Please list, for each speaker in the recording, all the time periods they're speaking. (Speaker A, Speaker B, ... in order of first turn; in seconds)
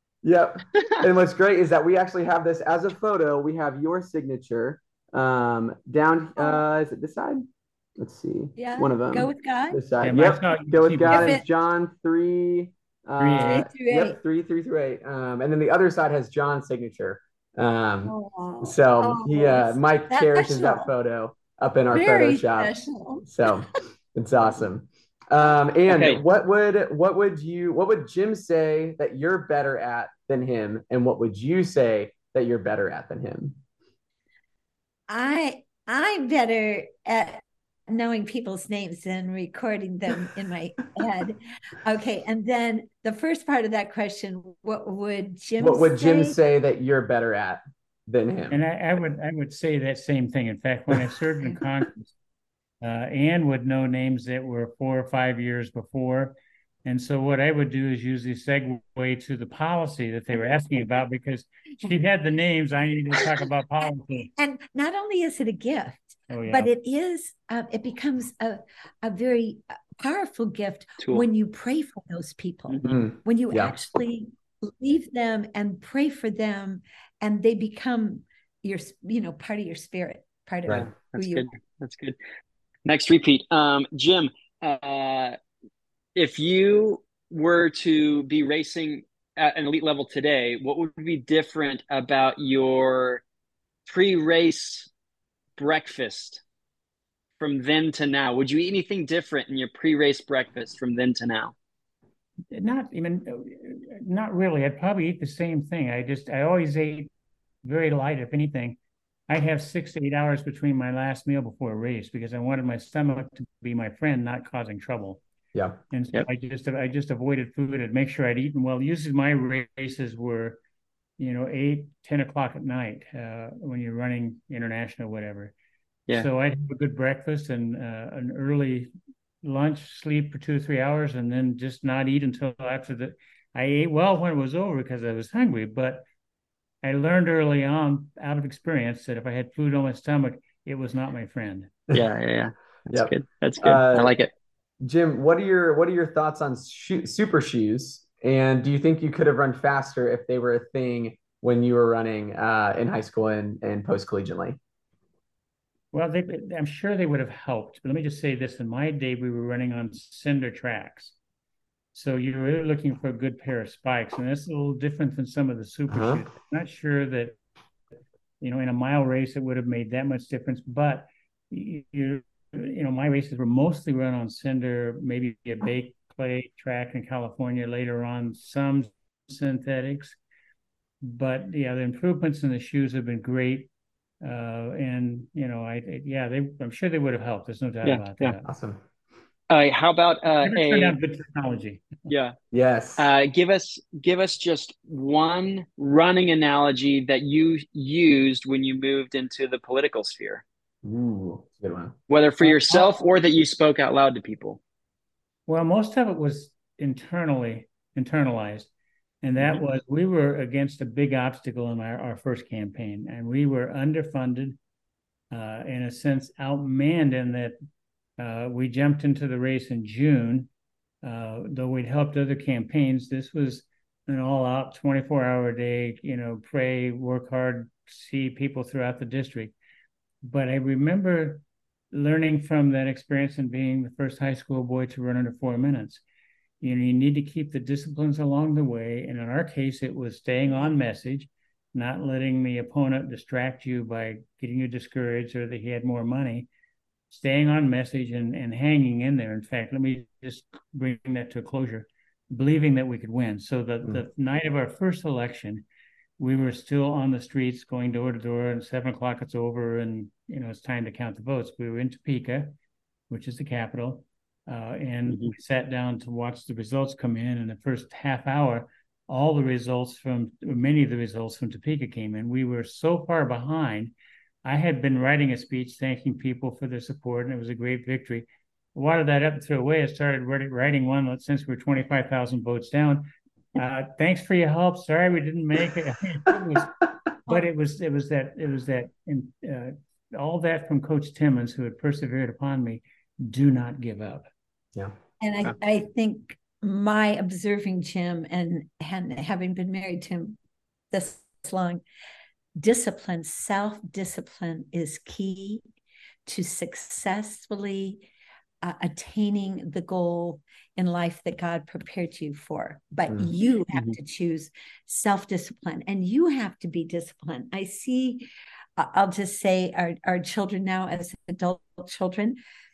Speaker A: 0.2-33.6, 45.6-48.6, 72.8-73.8, 115.5-115.8, 142.9-144.1, 144.8-154.6, 165.9-166.2, 188.5-188.8, 192.5-193.1, 200.8-201.9
Speaker B: 8.6-9.8, 11.1-11.4, 13.4-14.2, 18.1-20.9, 21.9-23.3, 35.1-46.4, 64.4-81.5, 295.2-300.4, 300.9-301.8, 302.6-305.6, 306.3-308.1, 308.6-322.4
Speaker C: 10.0-11.4, 13.2-13.7, 48.5-52.1, 52.8-64.3, 66.3-66.7, 102.5-107.1, 107.6-115.2, 115.9-120.6, 121.2-125.5, 126.1-128.9, 129.4-136.1, 136.8-141.7, 155.9-161.2, 161.9-167.4, 168.4-180.2, 181.0-183.7, 184.2-188.5, 190.4-192.1, 202.4-202.9, 205.5-208.7, 209.2-214.6, 215.3-217.6, 218.2-220.5, 221.0-229.5, 230.2-236.0, 236.6-246.5, 247.1-255.7, 256.2-262.6, 263.1-273.9, 274.4-294.3
Speaker D: 25.9-26.2, 80.7-82.2, 82.8-85.3, 86.2-93.2, 93.9-94.9, 95.6-96.4, 97.4-101.5, 141.9-144.3, 187.8-188.3, 189.5-191.0, 192.1-192.3, 193.0-200.4, 202.1-204.6, 265.1-265.3